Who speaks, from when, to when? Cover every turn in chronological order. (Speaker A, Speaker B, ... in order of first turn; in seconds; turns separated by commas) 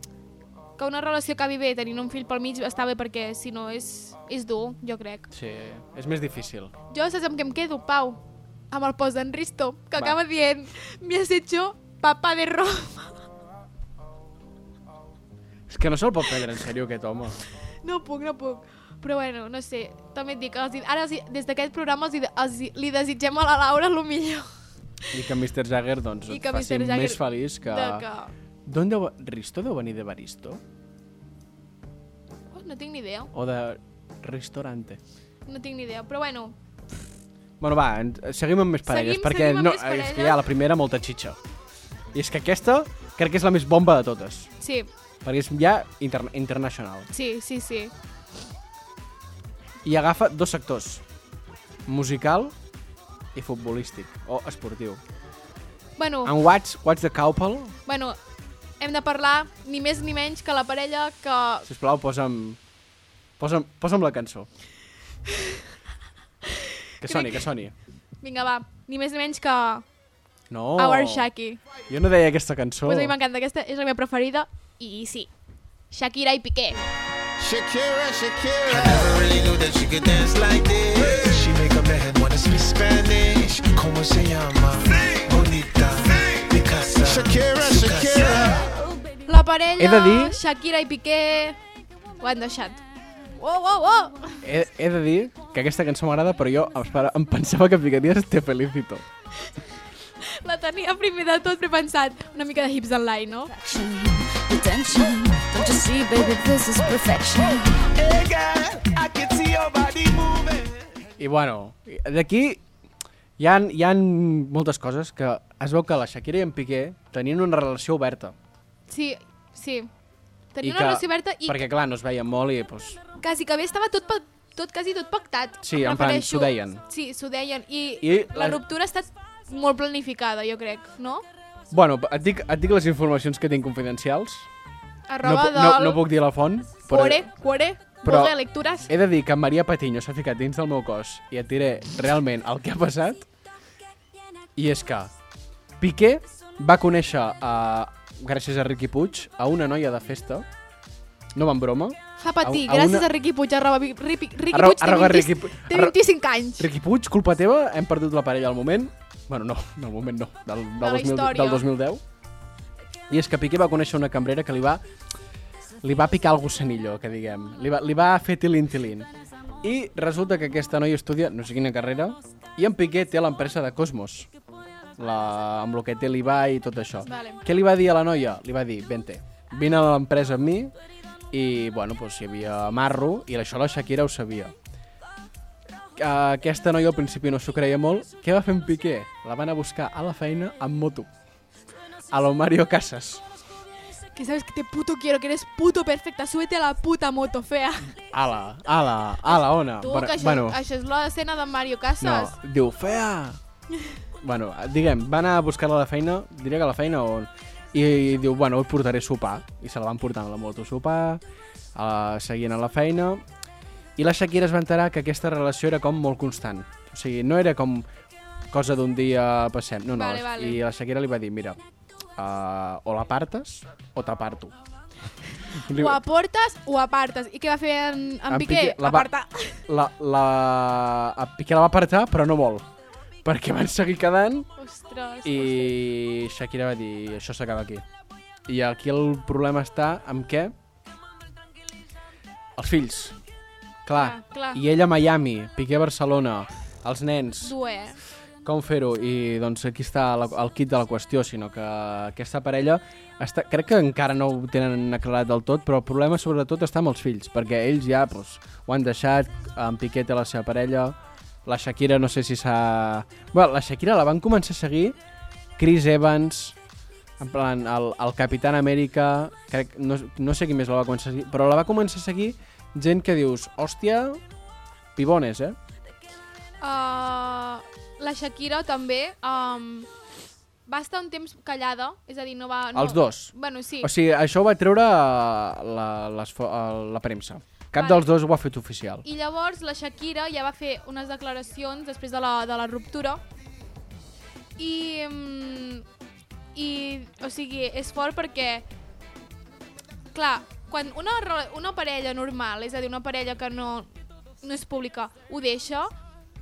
Speaker A: 0.8-5.3, Speaker B: 5.3-6.7, Speaker A: 6.9-13.2, Speaker B: 15.7-17.4, Speaker A: 17.8-24.5, Speaker B: 25.1-28.1, Speaker A: 26.3-28.3, Speaker B: 28.6-30.6, Speaker A: 32.5-33.3, Speaker B: 33.3-35.0, Speaker A: 35.5-36.5, Speaker B: 37.6-41.4, Speaker A: 38.9-40.4, Speaker B: 42.1-44.5, Speaker A: 44.6-44.9, Speaker B: 45.2-47.1, Speaker A: 47.1-47.9, Speaker B: 49.8-51.0, Speaker B: 51.9-52.5, Speaker B: 53.3-55.0, Speaker A: 56.0-56.3, Speaker B: 56.2-57.8, Speaker A: 57.9-58.2, Speaker A: 58.8-61.7, Speaker B: 61.7-62.6, Speaker B: 63.4-64.5, Speaker A: 65.3-65.6, Speaker A: 66.5-67.5, Speaker B: 67.0-67.8, Speaker A: 68.2-69.8, Speaker B: 70.5-71.3, Speaker A: 70.8-71.6, Speaker B: 71.9-73.2, Speaker A: 72.8-75.3, Speaker A: 75.9-76.8, Speaker C: 77.4-88.7, Speaker A: 89.3-91.6, Speaker B: 89.8-90.4, Speaker A: 92.2-92.8, Speaker A: 93.4-94.4, Speaker B: 94.4-99.0, Speaker A: 100.2-103.5, Speaker D: 103.5-107.9, Speaker C: 108.0-110.9, Speaker B: 111.2-112.6, Speaker B: 113.4-118.4, Speaker A: 118.9-119.9, Speaker A: 120.5-121.6, Speaker B: 120.6-123.0, Speaker A: 123.2-131.2, Speaker B: 125.6-126.8, Speaker B: 128.0-128.6, Speaker B: 131.7-134.5, Speaker A: 135.1-136.1, Speaker B: 135.2-137.3, Speaker A: 136.9-138.9, Speaker B: 138.0-143.3, Speaker B: 144.6-145.1, Speaker B: 145.8-150.5, Speaker B: 151.3-153.1, Speaker A: 152.2-156.7, Speaker B: 154.5-156.0, Speaker B: 156.6-162.0, Speaker A: 160.8-161.7, Speaker B: 163.1-164.8, Speaker B: 165.8-169.1, Speaker B: 169.6-174.3, Speaker B: 175.0-180.7, Speaker A: 177.1-177.4, Speaker B: 181.3-184.5, Speaker B: 186.0-191.1, Speaker B: 192.1-193.2, Speaker A: 194.2-197.9, Speaker B: 198.1-200.6, Speaker A: 199.8-202.4, Speaker B: 202.0-203.4, Speaker B: 204.2-211.2, Speaker B: 211.8-213.2, Speaker B: 214.0-217.9, Speaker B: 218.5-221.6, Speaker A: 219.9-220.6, Speaker B: 222.2-224.5, Speaker B: 225.6-226.0, Speaker A: 225.7-229.6, Speaker B: 228.3-229.1, Speaker B: 229.7-232.7, Speaker B: 233.2-234.5, Speaker A: 234.6-235.8, Speaker B: 235.2-237.8, Speaker B: 238.5-240.5, Speaker B: 242.6-243.2, Speaker B: 243.8-247.6, Speaker A: 243.9-244.6, Speaker A: 247.4-248.0, Speaker B: 248.4-265.0, Speaker B: 265.6-266.6, Speaker B: 267.2-274.2, Speaker B: 275.0-275.6, Speaker A: 276.6-279.9, Speaker A: 280.7-283.9, Speaker B: 282.7-289.1, Speaker A: 287.8-288.1, Speaker A: 289.0-293.2, Speaker A: 294.6-295.9, Speaker A: 296.6-298.6, Speaker A: 300.1-303.9, Speaker A: 304.4-305.9